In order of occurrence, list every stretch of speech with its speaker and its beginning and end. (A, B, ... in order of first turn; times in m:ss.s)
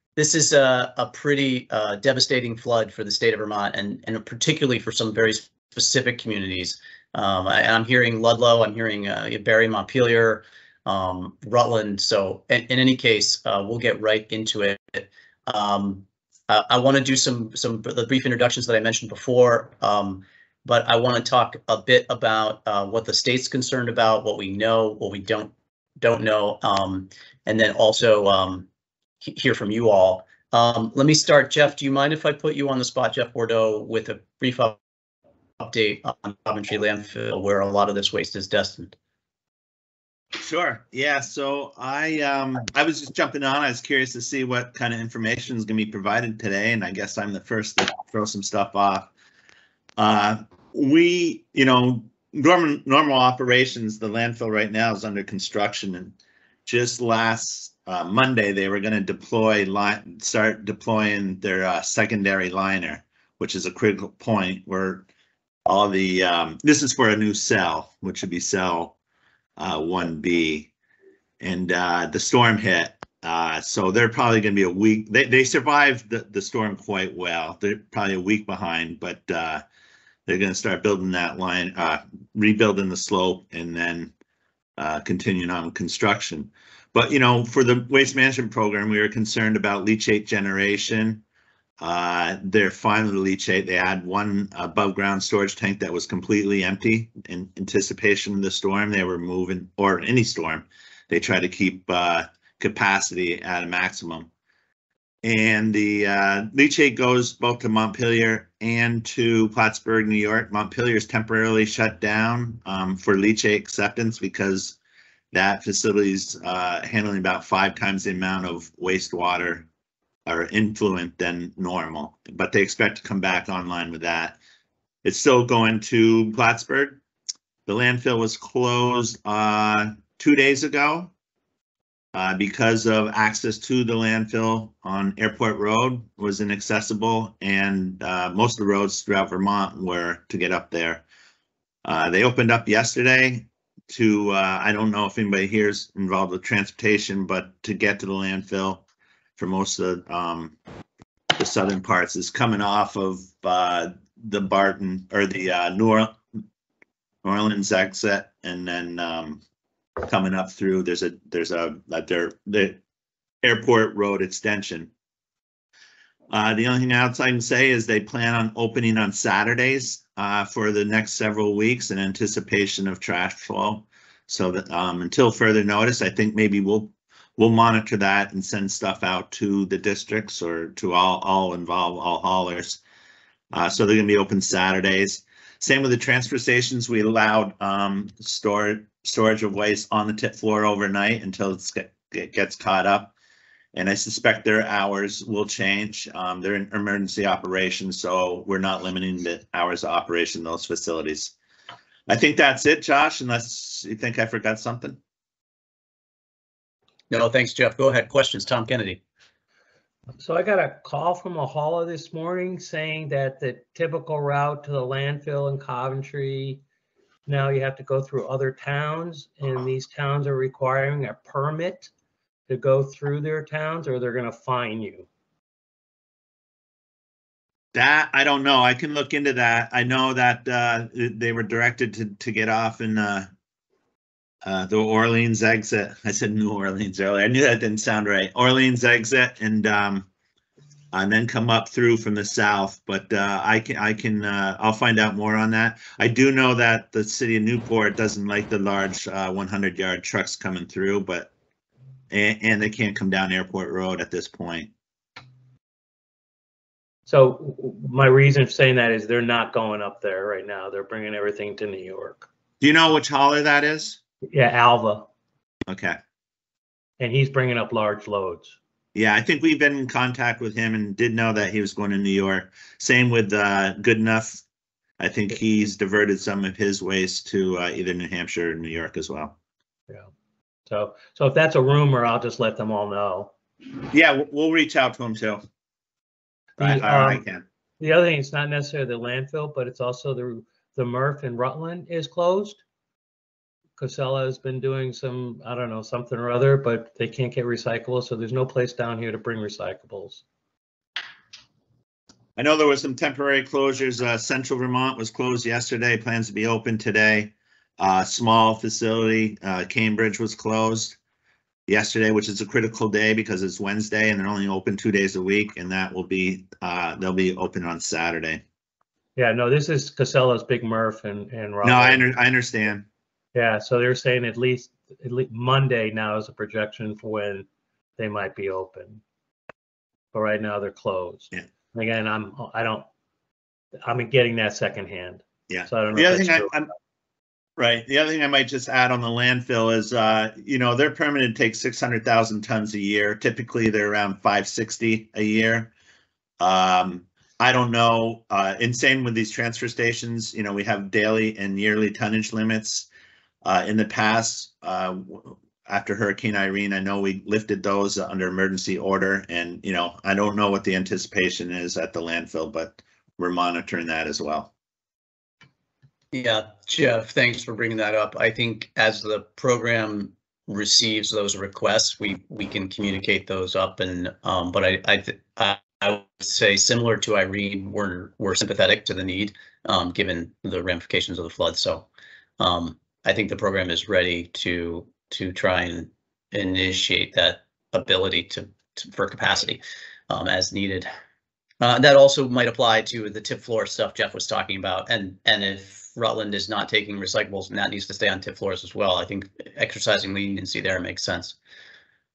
0:00.2-0:28.7 A
0:29.2-0:34.8 A
0:35.6-0:39.0 A
0:40.4-0:49.1 B
0:50.0-0:56.2 B
0:56.7-1:05.1 B
1:05.6-1:09.0 B
1:09.6-1:10.7 B
1:11.4-1:19.6 B
1:20.3-1:24.1 B
1:24.8-1:31.2 B
1:31.8-1:44.3 B
1:45.2-1:54.8 B
1:55.3-1:59.7 B
2:00.3-2:04.4 B
2:05.0-2:07.0 B
2:07.7-2:11.1 B
2:12.1-2:21.0 B
2:21.8-2:28.8 B
2:29.4-2:30.6 B
2:31.4-2:36.2 B
2:37.2-2:39.4 B
2:40.0-2:42.8 B
2:43.4-2:44.9 B
2:46.3-3:02.8 B
3:03.5-3:13.1 B
3:13.7-3:21.3 B
3:22.1-3:25.0 B
3:27.1-3:29.0 A
3:30.2-3:36.6 C
3:37.3-3:41.9 C
3:42.5-3:45.1 C
3:47.7-3:53.3 B
3:54.4-4:00.1 B
4:00.9-4:11.3 B
4:12.1-4:14.7 B
4:17.1-4:22.3 C
4:22.6-4:24.0 B
4:24.3-4:25.1 C
4:25.7-4:26.0 B
4:27.0-4:28.6 C
4:29.0-4:34.4 B
4:35.0-4:39.4 B
4:40.7-4:43.3 C
4:43.9-4:45.4 B
4:46.6-4:47.2 C
4:46.6-4:47.4 B
4:47.8-4:52.6 C
4:53.8-5:00.2 C
5:02.4-5:11.0 B
5:11.7-5:18.4 B
5:19.2-5:22.1 C
5:21.6-5:22.9 B
5:23.4-5:29.0 C
5:30.1-5:32.9 C
5:33.8-5:36.6 C
5:35.5-5:36.7 B
5:37.6-5:45.7 B
5:46.4-5:52.9 B
5:53.4-6:04.5 B
6:06.1-6:21.9 A
6:22.4-6:30.9 A
6:31.6-6:41.4 A